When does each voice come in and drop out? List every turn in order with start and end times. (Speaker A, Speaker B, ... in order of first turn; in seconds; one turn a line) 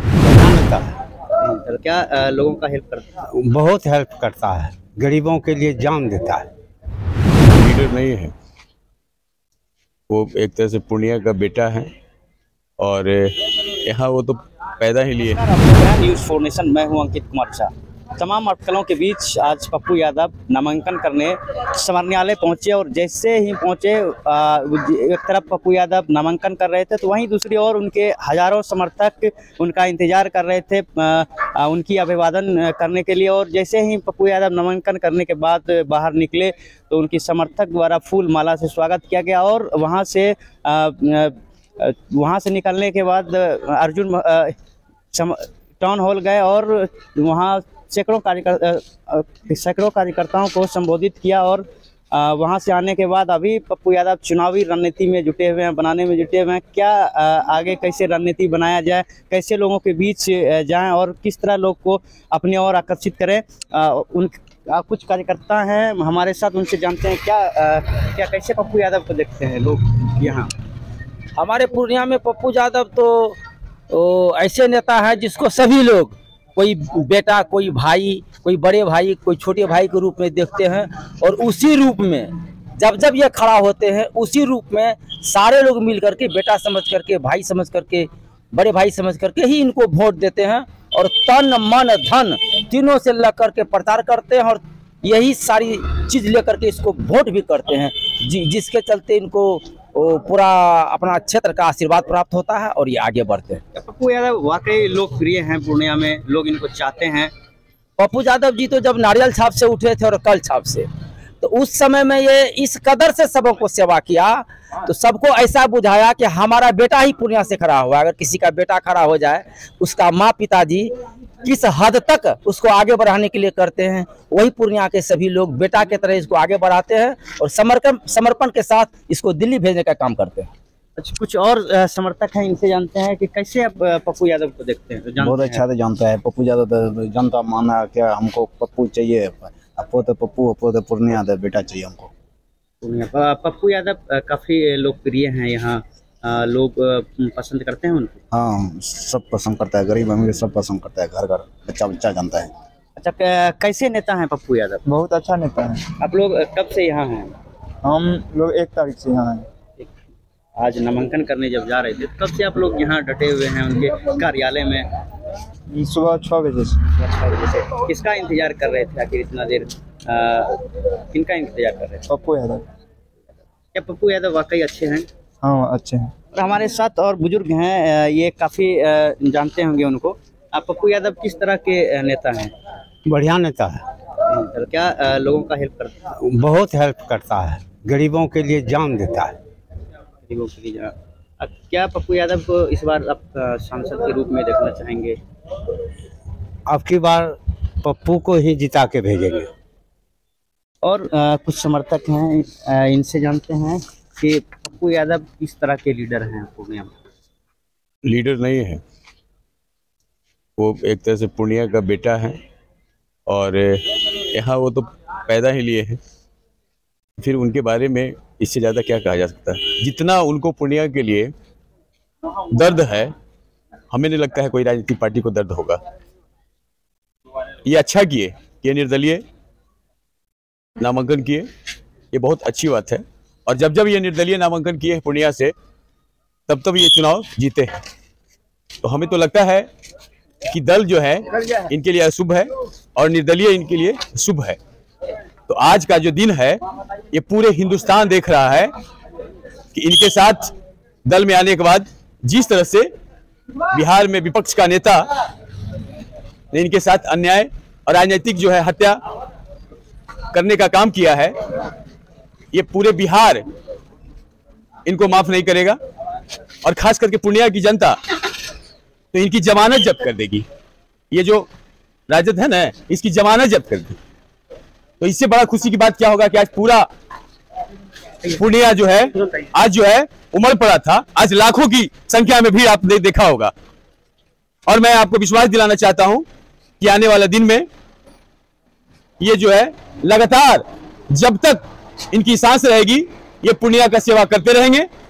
Speaker A: 0.2-1.0
Speaker B: 1.3-3.1
Speaker A: 3.3-6.5
Speaker C: 7.5-8.3
Speaker C: 10.1-11.9
Speaker C: 12.8-15.4
Speaker B: 15.2-44.5
Speaker B: 45.1-70.5
Speaker D: 71.3-73.4
Speaker D: 73.9-103.6
Speaker B: 103.7-107.3
Speaker D: 108.0-110.9
Speaker D: 111.4-120.9
Speaker D: 121.4-130.5
Speaker B: 131.0-135.6
Speaker E: 135.2-142.1
Speaker B: 142.8-148.2
Speaker E: 148.3-152.5
Speaker B: 153.0-154.8
Speaker F: 154.8-155.8
Speaker B: 156.0-157.3
Speaker F: 157.8-159.4
Speaker B: 160.6-164.8
Speaker F: 165.7-166.9
Speaker B: 167.0-172.0
Speaker F: 172.1-172.6
Speaker B: 173.7-175.1
Speaker F: 175.4-176.1
Speaker B: 176.3-182.5
Speaker A: 183.0-183.8
Speaker B: 184.2-185.9
Speaker A: 186.1-189.4
Speaker B: 190.2-195.2
Speaker A: 196.7-199.5
Speaker B: 200.8-206.9
Speaker C: 208.0-208.8
Speaker C: 210.6-212.4
Speaker C: 213.3-216.0
Speaker C: 217.2-221.3
Speaker C: 222.5-223.1
Speaker C: 223.9-225.8
Speaker C: 227.6-229.2
Speaker C: 230.8-231.5
Speaker C: 232.1-235.5
Speaker C: 236.5-237.7
Speaker C: 238.8-239.7
Speaker C: 240.5-244.6
Speaker C: 245.5-246.6
Speaker C: 247.1-248.7
Speaker C: 249.7-250.5
Speaker C: 251.1-252.9
Speaker C: 253.7-255.1
Speaker C: 256.5-259.0
Speaker C: 260.3-261.3
Speaker C: 262.5-263.4
Speaker C: 264.9-265.8
Speaker C: 266.6-268.0
Speaker C: 269.1-270.5
Speaker C: 271.1-271.5
Speaker C: 272.1-274.0
Speaker C: 275.0-276.9
Speaker C: 278.2-283.5
Speaker C: 284.7-286.2
Speaker C: 286.8-287.7
Speaker C: 289.2-294.9